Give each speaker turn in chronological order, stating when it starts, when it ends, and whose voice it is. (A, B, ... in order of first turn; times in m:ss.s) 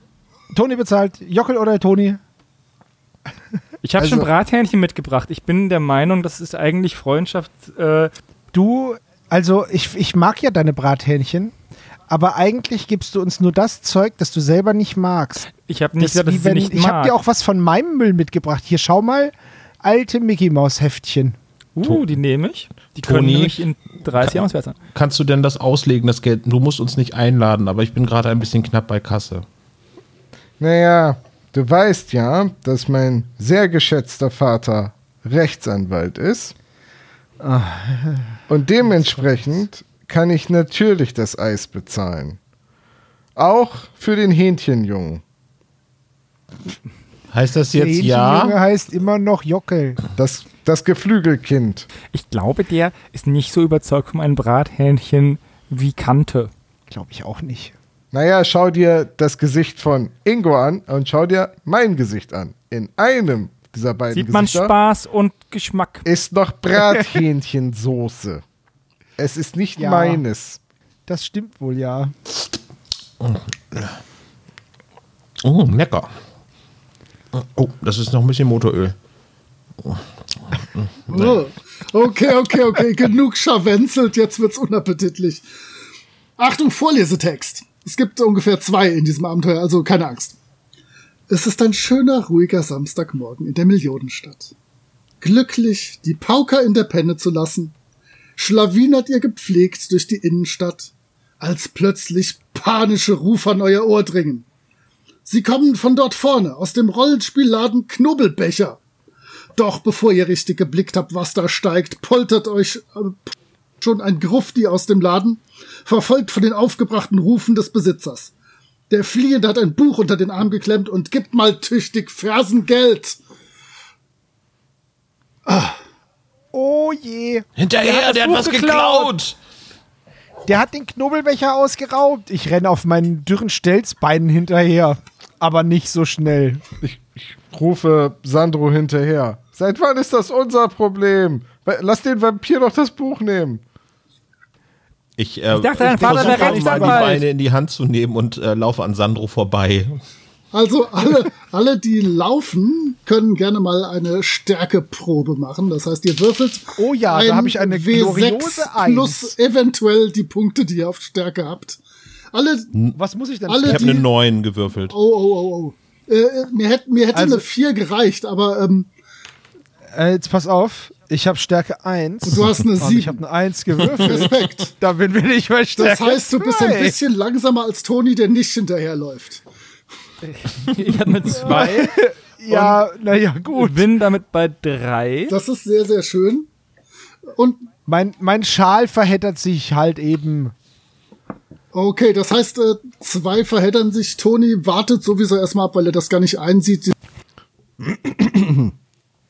0:00.5-0:02.2 A
0:03.8-0:08.1 B
0:04.0-0:04.3 C
0:08.5-0:11.5 A
0:12.1-0:15.4 A
0:15.5-0:17.1 B
0:16.0-0:21.4 A
0:21.8-0:24.8 B
0:23.0-0:23.7 D
0:24.2-0:24.4 D
0:24.9-0:29.4 D
0:30.6-0:36.5 C
0:37.4-0:38.4 A
0:38.5-0:42.4 C
0:43.4-0:45.2 C
0:47.3-0:48.6 D
0:47.7-0:50.0 A
0:50.2-0:51.9 C
0:52.1-0:56.5 B
0:56.9-0:57.7 A
0:58.1-1:04.7 C
1:04.1-1:06.0 B
1:06.0-1:08.4 C
1:06.8-1:07.2 A
1:09.2-1:10.6 C
1:09.8-1:10.2 A
1:11.1-1:12.1 A
1:13.2-1:14.0 D
1:15.4-1:16.1 D
1:17.3-1:19.0 D
1:19.8-1:21.4 D
1:21.1-1:25.4 E
1:26.4-1:30.4 E
1:31.3-1:34.5 E
1:35.2-1:37.8 E
1:38.4-1:44.5 E
1:45.3-1:48.8 E
1:49.6-1:58.3 E
1:58.9-2:03.2 E
2:05.5-2:05.8 E
2:06.5-2:07.5 A
2:07.6-2:09.4 D
2:07.8-2:09.1 B
2:10.4-2:16.6 A
2:16.8-2:23.6 C
2:25.2-2:30.0 D
2:25.5-2:27.2 B
2:26.0-2:27.2 A
2:30.5-2:41.8 E
2:36.8-2:39.4 A
2:42.3-2:42.7 E
2:43.0-2:44.0 A
2:43.5-2:44.1 E
2:43.6-2:45.0 D
2:44.9-2:48.9 E
2:47.1-2:47.5 A
2:49.9-2:57.0 A
2:52.2-2:53.2 E
2:53.9-2:54.7 E
2:55.8-2:59.4 E
3:00.4-3:01.9 B
3:01.4-3:03.9 A
3:03.5-3:05.4 B
3:05.3-3:06.5 E
3:07.4-3:07.7 E
3:07.9-3:10.6 A
3:11.7-3:17.0 E
3:17.8-3:18.7 C